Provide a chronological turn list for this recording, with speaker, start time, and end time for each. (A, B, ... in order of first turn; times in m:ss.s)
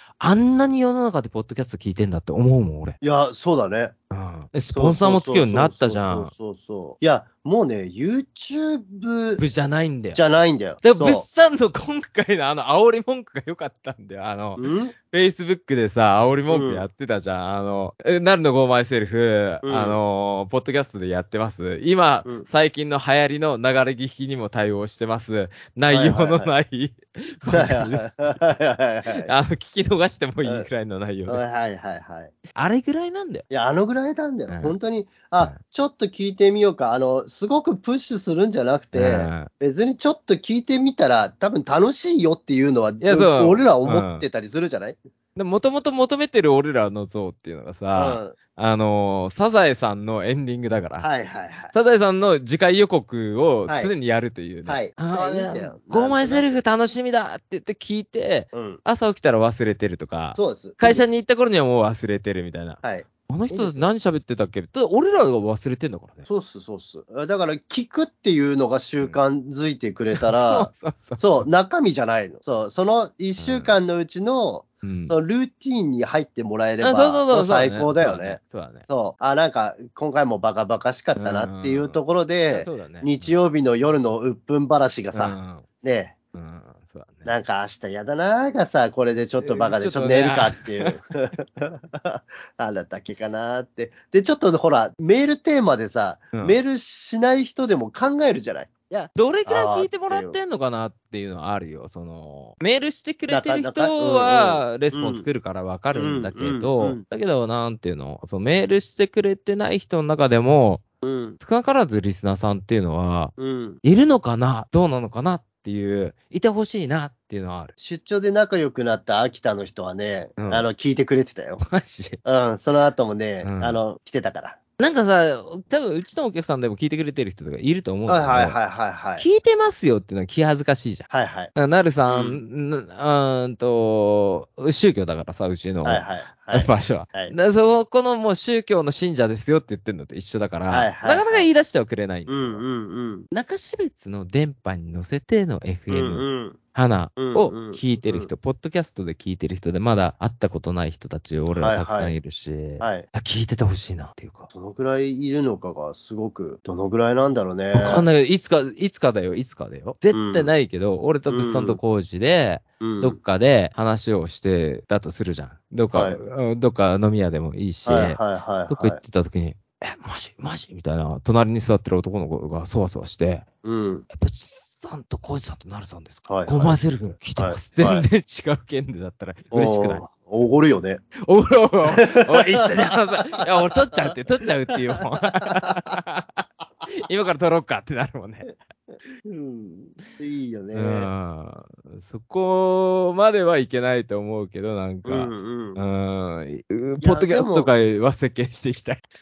0:00.2-0:03.0 A
0:03.0-0:03.9 B
0:04.1-0:06.3 A
0:04.7-0:09.4 B
0:09.4-0:10.2 A
0:10.2-0:11.3 B
0:10.8-0:28.4 A
0:14.6-0:14.9 B
0:16.5-0:16.9 B
0:19.6-0:20.0 B
0:25.9-0:26.5 B
0:27.5-0:29.3 B
0:29.1-0:31.4 A
0:31.3-0:32.3 B
0:32.6-0:33.5 A
0:33.5-0:45.0 B
0:34.5-0:34.8 A
0:38.9-0:39.5 A
0:43.0-0:44.3 A
0:45.4-0:51.1 A
0:47.9-0:48.4 B
0:51.0-0:51.7 B
0:51.7-1:06.3 A
0:53.7-0:53.9 B
0:54.7-0:56.5 B
0:58.5-0:58.8 B
1:00.4-1:01.1 B
1:02.8-1:03.9 B
1:06.3-1:26.1 B
1:10.2-1:11.5 A
1:13.4-1:13.8 A
1:14.8-1:15.2 A
1:16.8-1:18.9 A
1:21.2-1:22.0 A
1:22.5-1:23.4 A
1:25.1-1:25.6 A
1:26.3-1:27.3 A
1:27.3-1:38.7 B
1:29.4-1:31.0 A
1:36.3-1:36.6 A
1:38.9-1:50.8 A
1:39.5-1:40.4 B
1:43.3-1:45.3 B
1:45.9-1:47.0 B
1:51.0-1:51.4 B
1:51.4-1:57.7 A
1:53.4-1:53.8 B
1:57.8-2:01.6 B
2:00.4-2:00.7 A
2:01.6-2:02.2 A
2:02.2-2:04.6 B
2:03.4-2:03.8 A
2:04.8-2:08.6 A
2:08.1-2:09.3 B
2:09.2-2:22.6 A
2:11.1-2:11.5 B
2:12.1-2:12.4 B
2:15.8-2:17.4 B
2:20.7-2:21.5 B
2:22.3-2:23.3 B
2:23.3-2:34.5 A
2:25.9-2:26.6 B
2:27.2-2:28.3 B
2:31.6-2:32.2 B
2:32.8-2:33.1 B
2:34.5-2:38.1 B
2:37.7-2:53.4 A
2:40.1-2:40.5 B
2:41.3-2:41.8 B
2:42.8-2:43.2 B
2:47.9-2:49.0 B
2:53.6-2:54.1 B
2:54.1-3:00.0 A
2:56.3-2:56.8 B
2:57.4-2:58.1 B
2:59.5-3:01.0 B
3:01.2-3:08.5 A
3:01.9-3:04.2 B
3:04.7-3:05.9 B
3:08.4-3:11.1 B
3:10.7-3:19.0 A
3:15.0-3:15.8 B
3:17.0-3:17.7 B